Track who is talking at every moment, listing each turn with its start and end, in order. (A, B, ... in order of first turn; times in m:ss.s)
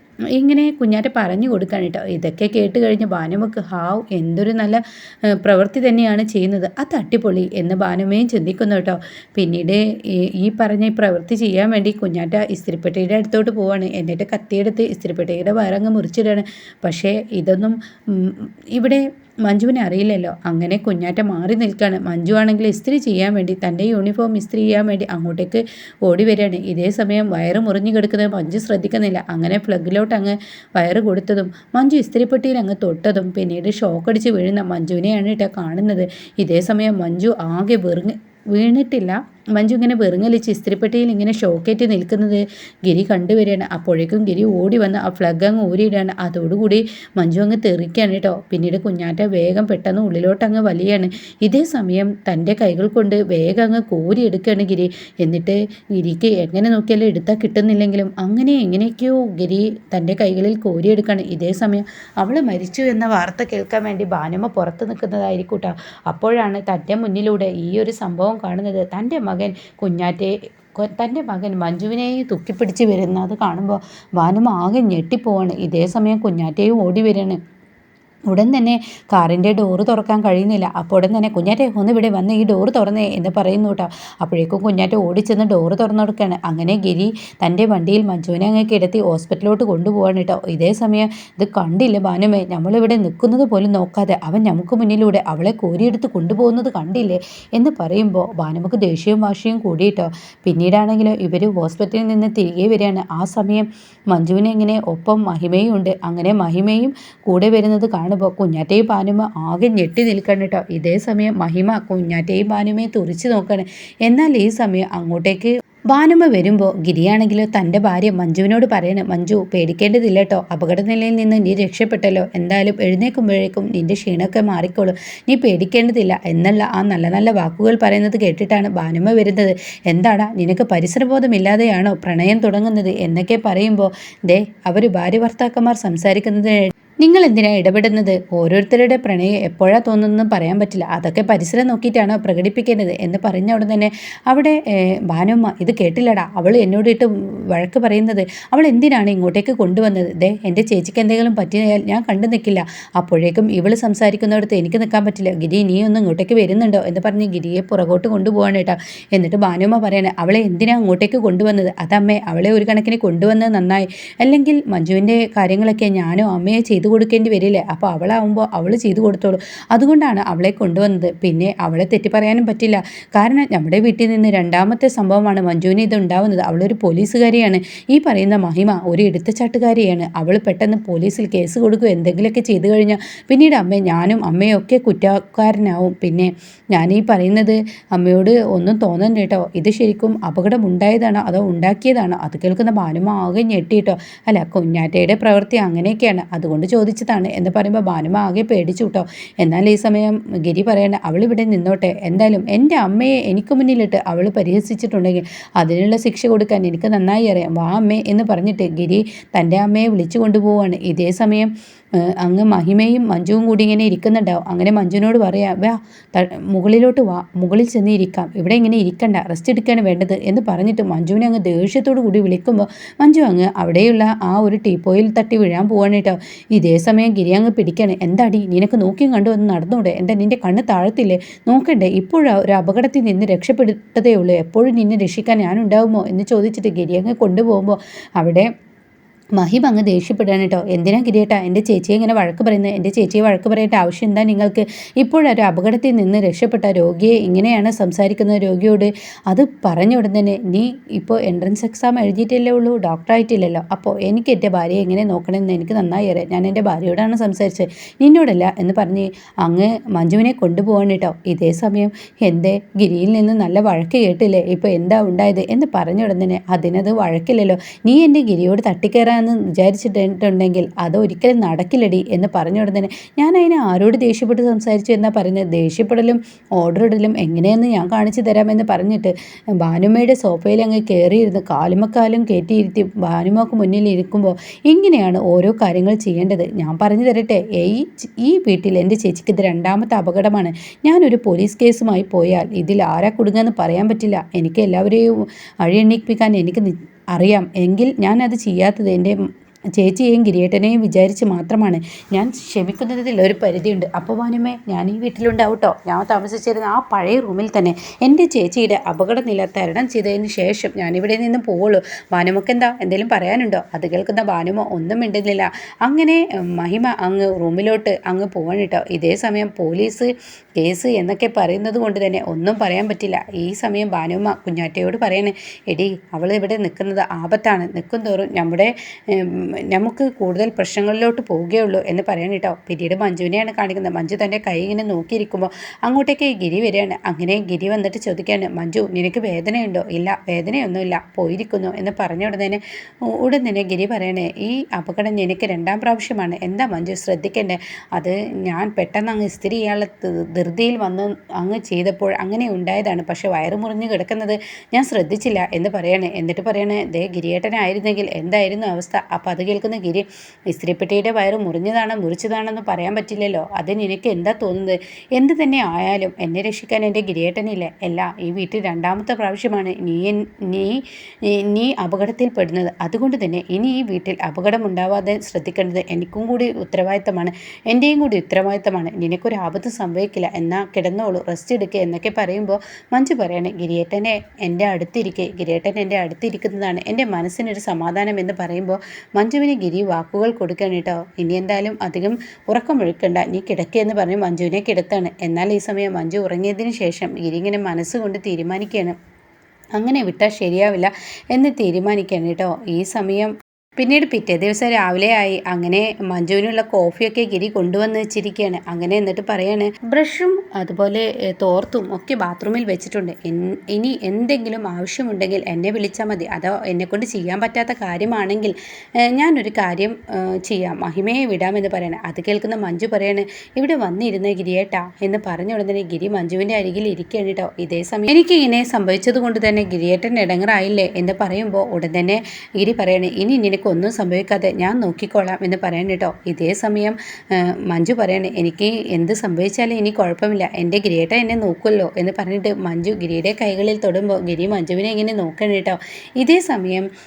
0:00.3-1:17.4 A
1:18.3-3:31.5 A
3:32.2-3:58.5 A
3:59.4-4:55.1 A
4:55.6-4:59.1 A
4:59.8-6:39.0 A
6:39.8-6:58.5 A
6:59.0-7:26.8 A